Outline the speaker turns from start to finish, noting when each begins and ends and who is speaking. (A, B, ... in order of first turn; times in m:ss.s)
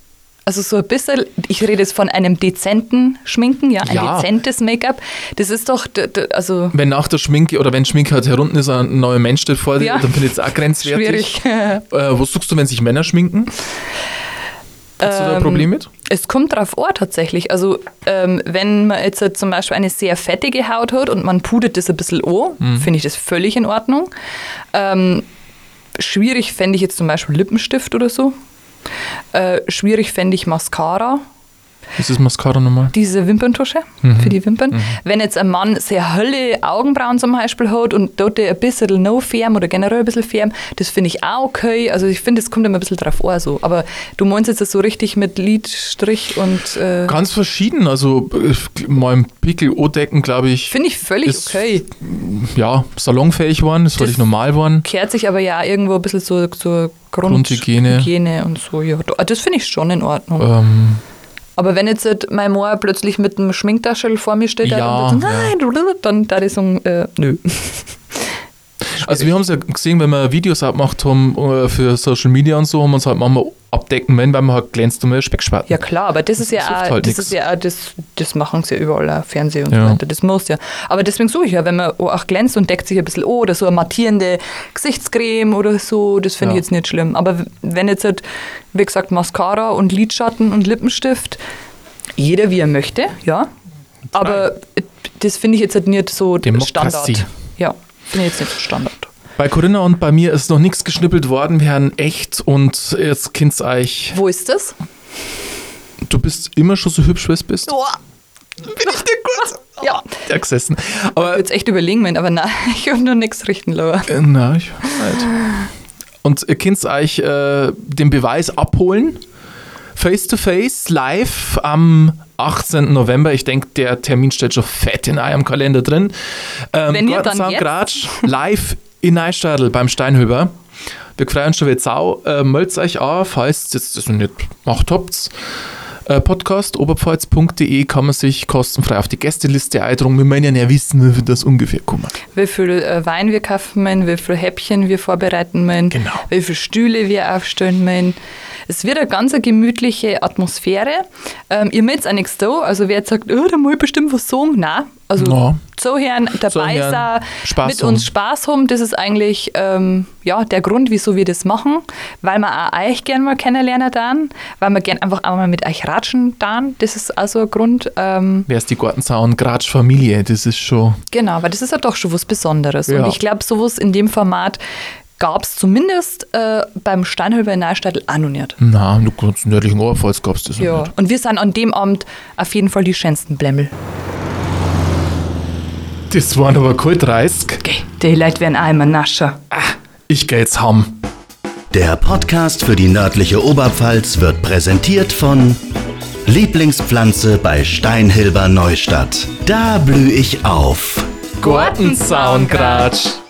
0:00.5-0:06.7 A
0:03.8-0:04.3 B
0:06.7-0:13.5 B
0:09.8-0:11.8 A
0:15.0-0:15.9 B
0:15.0-0:24.1 A
0:22.6-0:22.9 B
0:24.7-0:25.2 A
0:26.0-0:28.3 A
0:29.3-0:31.2 A
0:32.0-0:32.9 B
0:32.9-0:47.1 A
0:34.0-0:35.0 B
0:47.0-0:54.8 B
0:50.7-0:51.8 A
0:54.0-0:54.3 A
0:54.8-1:00.5 A
0:57.2-0:58.1 B
1:00.4-1:01.0 B
1:01.6-1:08.3 A
1:04.6-1:05.5 B
1:08.9-1:15.8 B
1:15.7-1:28.2 A
1:16.4-1:17.4 B
1:19.7-1:20.0 B
1:28.7-1:31.4 A
1:32.2-1:33.5 A
1:34.1-1:34.5 B
1:34.1-1:39.1 A
1:36.4-1:37.2 B
1:39.4-1:44.2 B
1:44.1-1:44.8 A
1:46.0-1:47.8 B
1:47.7-1:48.0 A
1:48.7-1:51.4 B
1:48.8-1:50.0 A
1:51.2-1:54.1 A
1:54.1-1:55.4 B
1:54.9-1:55.5 A
1:56.2-1:59.2 B
2:00.0-2:06.1 B
2:06.7-2:10.5 B
2:06.9-2:08.3 A
2:11.2-2:15.3 B
2:16.1-2:22.1 B
2:22.3-2:28.2 A
2:25.9-2:26.2 B
2:28.7-2:48.5 A
2:35.2-2:35.6 B
2:36.4-2:38.1 B
2:48.5-2:51.0 B
2:51.1-2:54.6 A
2:52.9-2:53.2 B
2:55.2-2:58.6 A
2:58.6-3:00.9 B
3:00.6-3:03.7 A
3:06.1-3:07.6 B
3:07.6-3:09.4 A
3:09.5-3:10.9 B
3:11.7-3:15.6 C
3:16.2-3:21.1 C
3:21.4-3:23.2 B
3:21.4-3:23.0 A